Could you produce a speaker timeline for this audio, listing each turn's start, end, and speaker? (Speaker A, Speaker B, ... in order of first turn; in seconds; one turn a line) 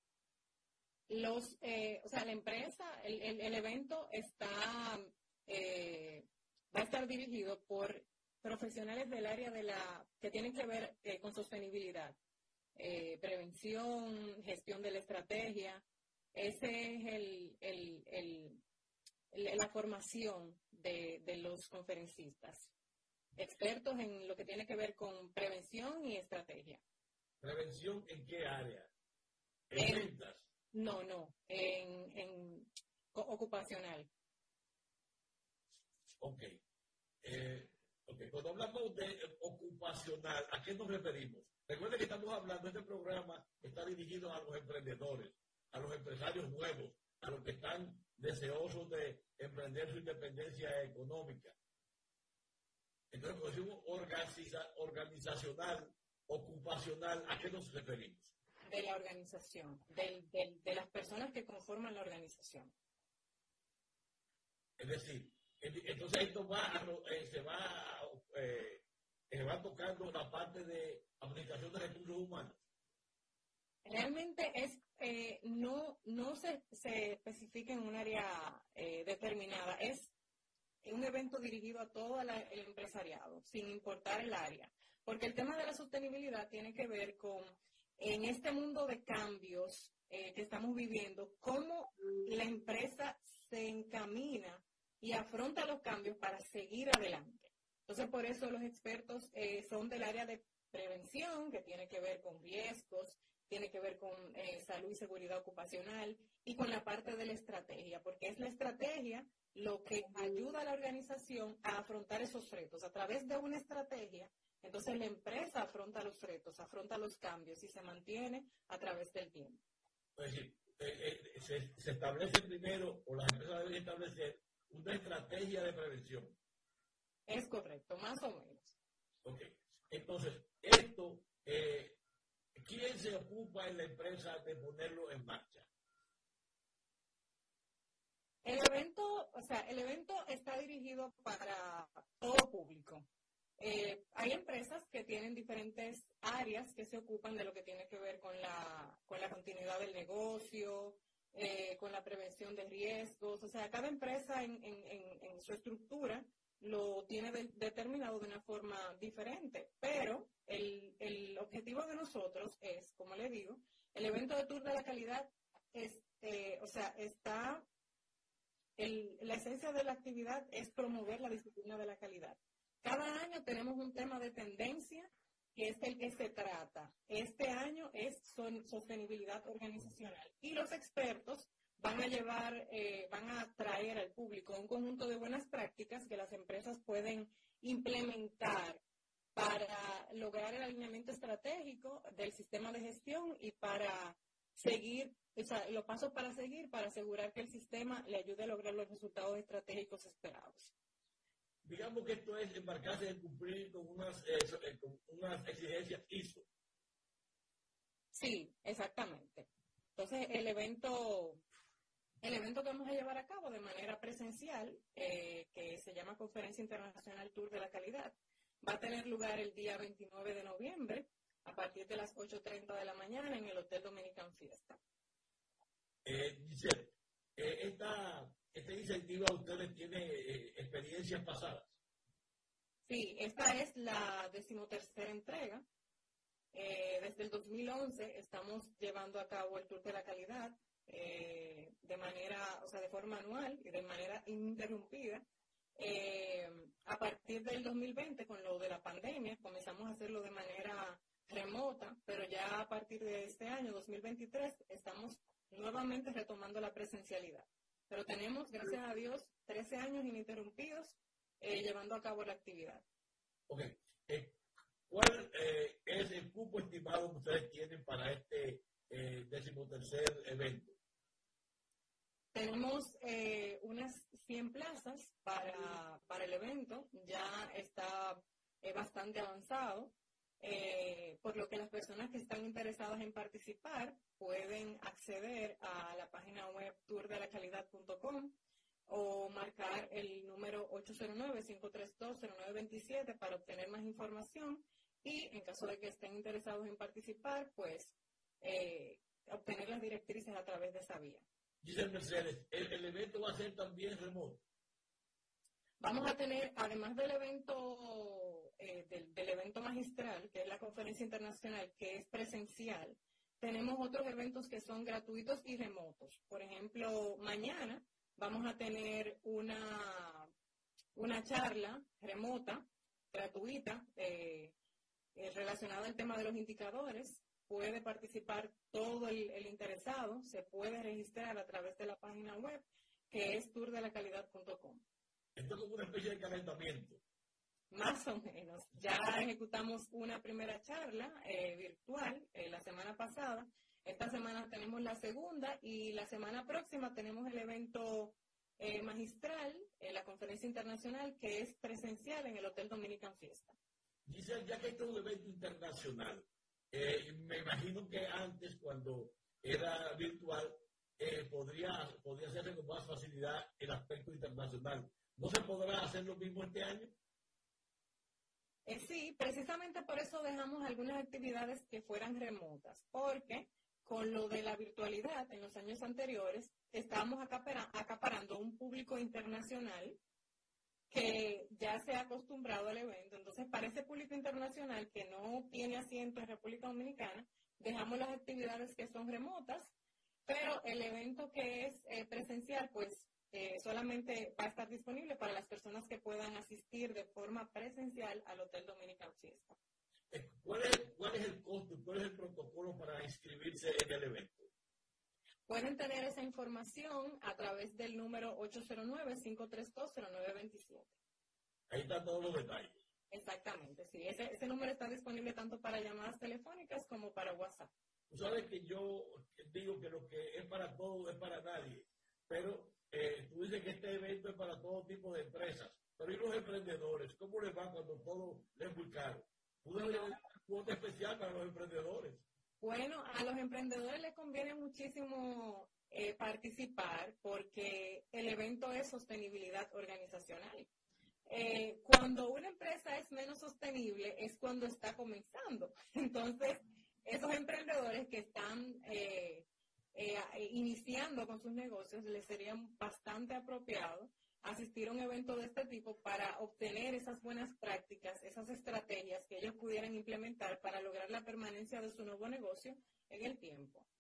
Speaker A: 1.1-12.2
Speaker A: 12.8-18.6
Speaker A: 19.3-22.7
Speaker A: 23.4-26.8
Speaker B: 27.4-28.9
Speaker B: 29.7-30.5
Speaker A: 29.8-30.1
Speaker A: 30.7-34.1
Speaker B: 36.2-36.5
Speaker B: 37.2-51.6
Speaker B: 53.1-58.3
Speaker A: 58.7-62.7
Speaker B: 64.8-72.6
Speaker A: 73.9-80.1
Speaker A: 80.8-119.6
Speaker B: 120.2-126.4
Speaker A: 127.3-128.8
Speaker B: 129.2-132.0
Speaker B: 132.6-135.7
Speaker A: 138.4-167.7
Speaker A: 168.8-188.8
Speaker A: 189.3-200.7
Speaker B: 201.6-206.5
Speaker A: 208.1-211.4
Speaker A: 212.2-224.8
Speaker B: 226.1-231.8
Speaker A: 232.9-235.7
Speaker A: 236.5-262.8
Speaker B: 263.5-264.4
Speaker B: 264.9-270.8
Speaker A: 272.3-288.4
Speaker A: 288.9-301.2
Speaker B: 301.6-304.4
Speaker A: 305.8-320.3
Speaker A: 320.9-324.6
Speaker A: 325.1-334.8
Speaker B: 335.4-337.0
Speaker A: 337.7-353.6
Speaker B: 354.1-366.9
Speaker A: 368.7-380.0
Speaker A: 380.9-389.7
Speaker A: 390.3-399.6
Speaker B: 400.1-404.5
Speaker A: 405.5-410.9
Speaker B: 411.7-412.8
Speaker A: 413.1-417.7
Speaker B: 418.1-432.2
Speaker A: 429.8-430.2
Speaker A: 432.6-440.7
Speaker A: 441.3-463.9